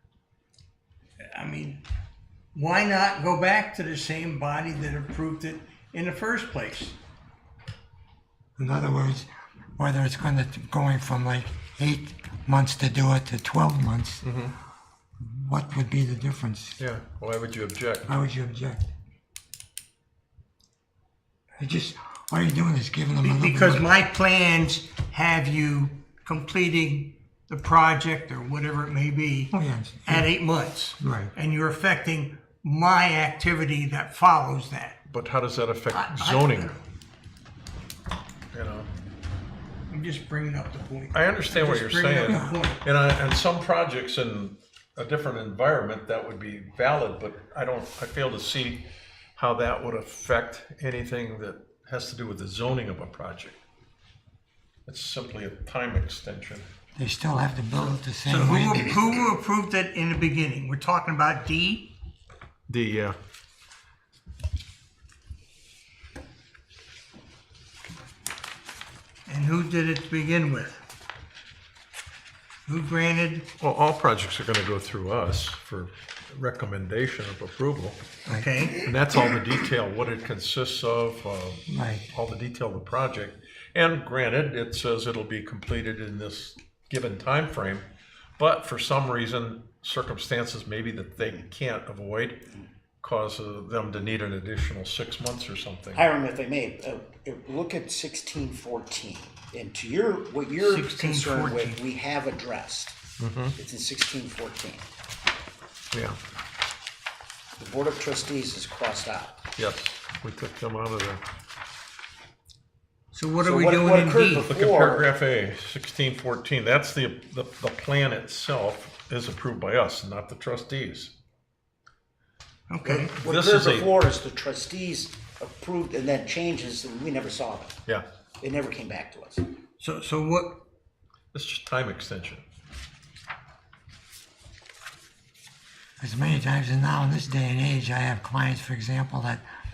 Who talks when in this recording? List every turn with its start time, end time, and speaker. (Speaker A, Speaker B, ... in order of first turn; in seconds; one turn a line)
Speaker A: 1.2-1.9
Speaker A: 2.5-7.0
Speaker B: 8.6-14.2
Speaker C: 14.2-14.6
Speaker B: 15.2-16.8
Speaker C: 16.8-18.1
Speaker B: 18.1-18.9
Speaker B: 21.6-23.9
Speaker A: 23.2-35.0
Speaker B: 29.5-30.3
Speaker B: 31.0-31.3
Speaker C: 35.1-36.8
Speaker A: 35.9-36.8
Speaker C: 38.5-38.9
Speaker A: 39.9-42.8
Speaker C: 41.1-53.6
Speaker C: 54.9-56.7
Speaker B: 57.0-59.1
Speaker A: 58.2-61.9
Speaker C: 62.7-63.1
Speaker A: 69.3-70.8
Speaker A: 72.7-73.5
Speaker C: 73.6-78.0
Speaker A: 78.3-78.9
Speaker C: 78.8-92.5
Speaker B: 81.7-82.1
Speaker C: 93.0-96.0
Speaker D: 95.9-103.0
Speaker A: 100.6-101.8
Speaker C: 103.2-103.6
Speaker D: 103.6-104.9
Speaker C: 105.9-106.2
Speaker D: 107.6-109.4
Speaker C: 109.6-111.2
Speaker A: 113.1-114.5
Speaker D: 113.4-115.1
Speaker C: 114.4-121.1
Speaker A: 122.7-123.2
Speaker D: 122.8-127.8
Speaker C: 123.2-123.9
Speaker D: 128.4-129.4
Speaker A: 129.8-130.7
Speaker C: 131.3-132.4
Speaker B: 136.0-139.4